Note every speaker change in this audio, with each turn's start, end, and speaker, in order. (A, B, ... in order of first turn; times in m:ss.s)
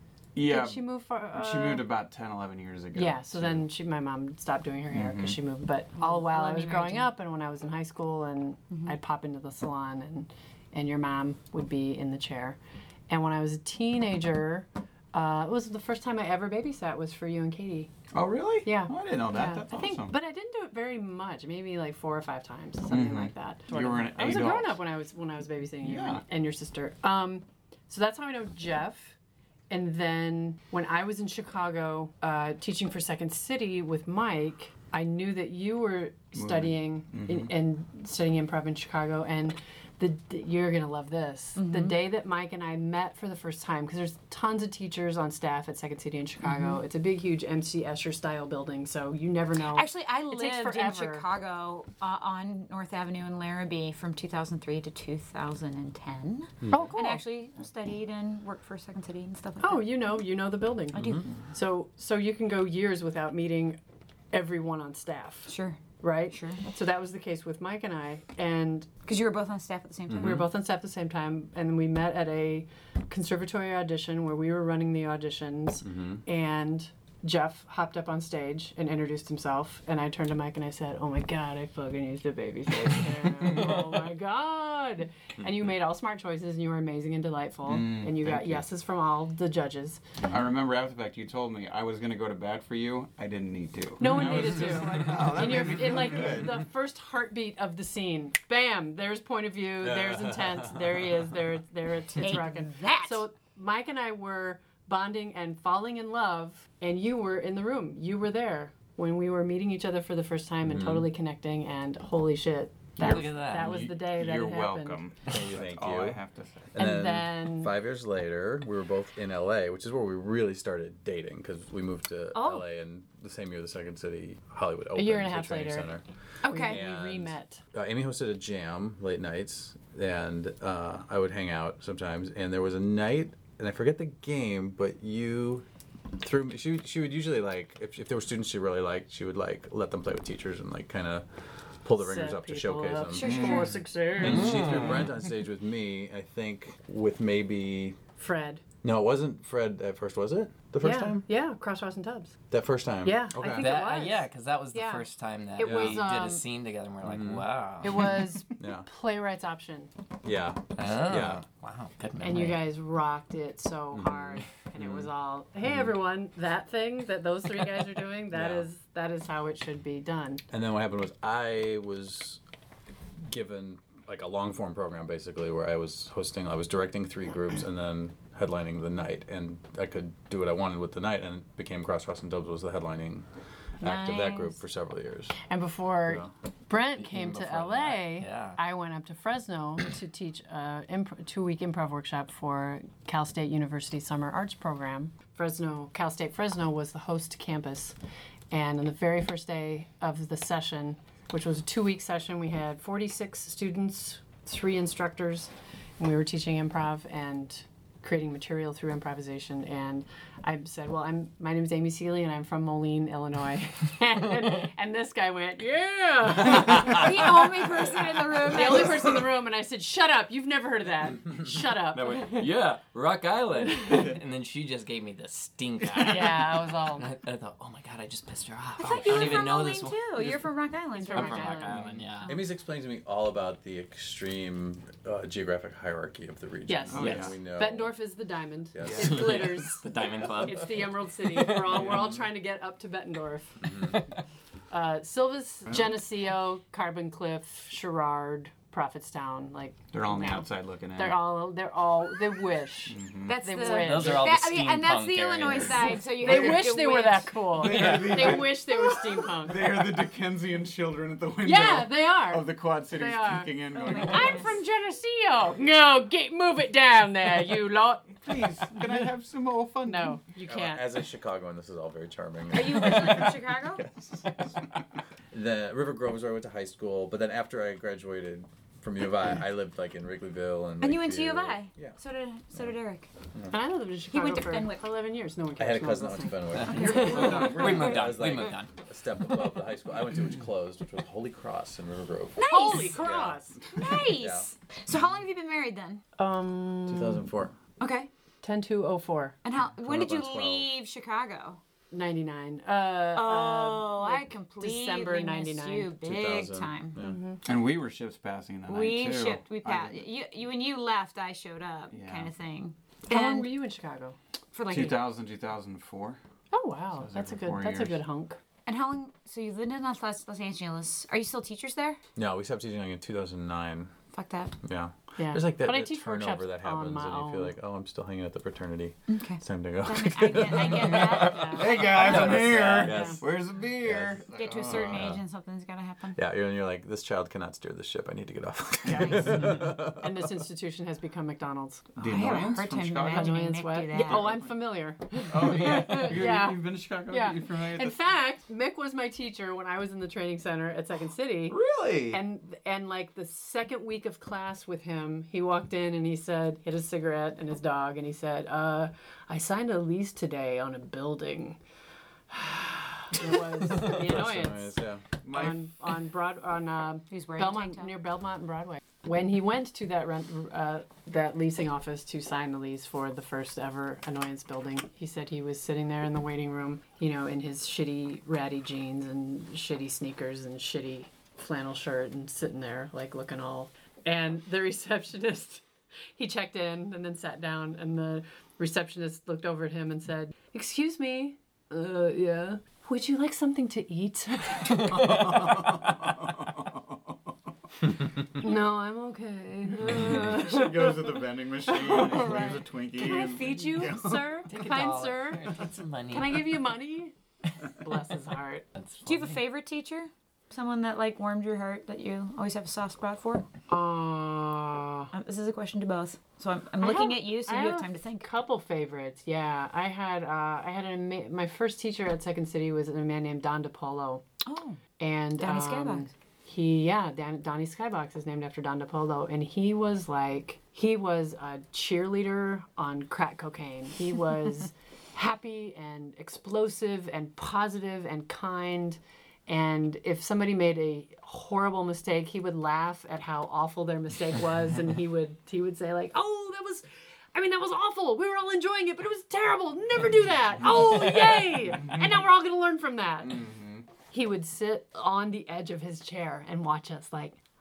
0:00.3-0:03.6 A
0:00.5-0:01.8 B
0:02.9-0:17.9 B
0:04.9-0:05.4 A
0:06.0-0:07.1 C
0:18.1-0:20.1 A
0:18.6-0:29.2 B
0:22.9-0:24.8 A
0:25.8-0:26.2 A
0:29.7-0:51.2 B
0:36.3-0:37.5 A
0:41.6-0:41.9 C
0:46.4-0:46.8 C
0:49.7-0:59.8 C
0:56.6-0:56.9 D
0:56.7-0:57.2 B
0:59.6-1:03.8 B
1:00.9-1:01.2 D
1:00.9-1:01.3 C
1:04.3-1:08.9 B
1:05.5-1:06.6 C
1:09.0-1:10.4 C
1:10.1-1:10.5 D
1:10.2-1:30.2 B
1:15.8-1:16.2 D
1:27.6-1:28.6 A
1:30.2-1:36.6 A
1:34.0-1:55.0 B
1:39.8-1:41.0 D
1:42.2-1:43.2 C
1:50.6-1:51.1 D
1:53.0-1:53.9 E
1:53.0-1:56.7 A
1:55.2-1:56.2 D
1:56.7-2:06.0 D
1:56.8-1:57.7 B
2:02.3-2:02.6 C
2:05.0-2:07.6 B
2:06.4-2:06.8 C
2:06.6-2:15.6 D
2:16.2-2:23.6 D
2:22.0-2:24.6 B
2:23.1-2:23.7 C
2:23.2-2:23.7 A
2:24.2-2:28.0 D
2:24.2-2:25.1 E
2:28.2-2:28.6 B
2:28.8-2:31.2 D
2:30.8-2:32.3 B
2:32.5-2:33.8 D
2:33.0-2:36.4 B
2:33.5-2:38.3 E
2:35.6-2:36.0 D
2:37.0-2:38.9 D
2:37.8-2:39.9 B
2:40.2-2:41.4 D
2:40.8-2:42.6 E
2:42.2-2:50.4 B
2:43.9-2:45.1 D
2:45.6-2:45.9 D
2:48.3-2:48.7 D
2:50.5-2:52.4 D
2:53.2-3:03.3 D
3:03.8-3:05.4 D
3:03.8-3:04.6 C
3:05.4-3:17.9 B
3:07.0-3:08.6 E
3:18.5-3:37.5 B
3:36.4-3:39.2 C
3:38.4-3:42.5 B
3:41.9-3:50.4 E
3:46.0-3:47.1 B
3:48.8-3:52.4 C
3:49.0-3:49.4 B
3:50.9-3:51.9 B
3:51.1-3:52.3 E
3:51.7-3:52.0 A
3:52.2-3:57.9 D
3:56.7-4:03.9 B
3:56.9-3:57.3 A
3:58.7-3:59.5 D
3:58.8-3:59.3 A
3:58.9-4:01.9 E
4:03.6-4:04.0 D
4:03.7-4:04.2 E
4:04.7-4:14.3 B
4:09.9-4:11.2 A
4:12.9-4:13.4 A
4:13.2-4:17.4 C
4:13.6-4:16.6 E
4:15.6-4:19.8 B
4:17.5-4:24.5 A
4:17.6-4:18.5 E
4:21.4-4:28.4 B
4:23.7-4:24.6 C
4:28.2-4:30.2 A
4:29.8-4:30.9 B
4:30.4-4:34.8 D
4:32.5-4:33.8 C
4:35.3-4:42.0 D
4:40.8-4:43.1 C
4:43.5-4:47.5 B
4:44.1-4:44.9 C
4:45.6-4:53.4 D
4:46.5-4:48.7 E
4:46.7-4:48.0 A
4:52.4-4:53.0 C
4:52.4-4:53.8 B
4:53.7-4:56.0 C
4:54.1-4:54.5 D
4:56.2-4:57.3 B
4:56.9-4:57.6 D
4:57.8-4:58.1 C
4:58.4-4:59.4 B
4:59.4-5:01.6 C
4:59.8-5:00.7 D
5:01.9-5:05.9 B
5:03.1-5:07.0 C
5:06.0-5:07.2 D
5:07.0-5:07.4 B
5:07.4-5:10.0 A
5:08.7-5:13.5 C
5:11.9-5:12.3 A
5:13.1-5:14.2 B
5:14.5-5:15.0 C
5:14.7-5:16.2 A
5:16.5-5:18.4 B
5:16.9-5:18.0 A
5:18.6-5:22.0 C
5:22.2-5:23.9 D
5:24.1-5:24.6 C
5:24.6-5:31.2 D
5:25.2-5:27.5 B
5:29.1-5:32.0 C
5:30.9-5:33.0 E
5:31.4-5:33.2 B
5:31.4-5:35.0 A
5:32.6-5:33.2 D
5:33.8-5:35.2 D
5:34.3-5:36.2 C
5:36.2-5:40.3 D
5:38.9-5:41.9 B
5:42.0-5:43.3 A
5:42.0-5:44.2 C
5:43.1-6:01.6 B
5:43.9-5:44.5 A
5:45.3-5:48.0 A
5:51.5-5:52.2 A
6:02.3-6:25.6 B
6:03.7-6:05.0 D
6:05.2-6:05.6 A
6:07.1-6:07.9 C
6:26.2-6:35.5 B
6:34.7-6:35.7 E
6:35.0-6:36.8 A
6:38.3-6:47.1 B
6:39.8-6:44.3 A
6:44.5-6:46.6 E
6:47.6-6:48.0 E
6:47.7-6:48.7 B
6:48.7-6:49.4 E
6:49.0-6:53.4 C
6:53.7-6:55.1 B
6:55.1-6:58.3 C
6:56.8-7:04.2 B
7:04.4-7:04.8 C
7:05.0-7:33.6 B
7:05.4-7:06.1 C
7:33.3-7:33.8 A
7:34.1-7:37.4 B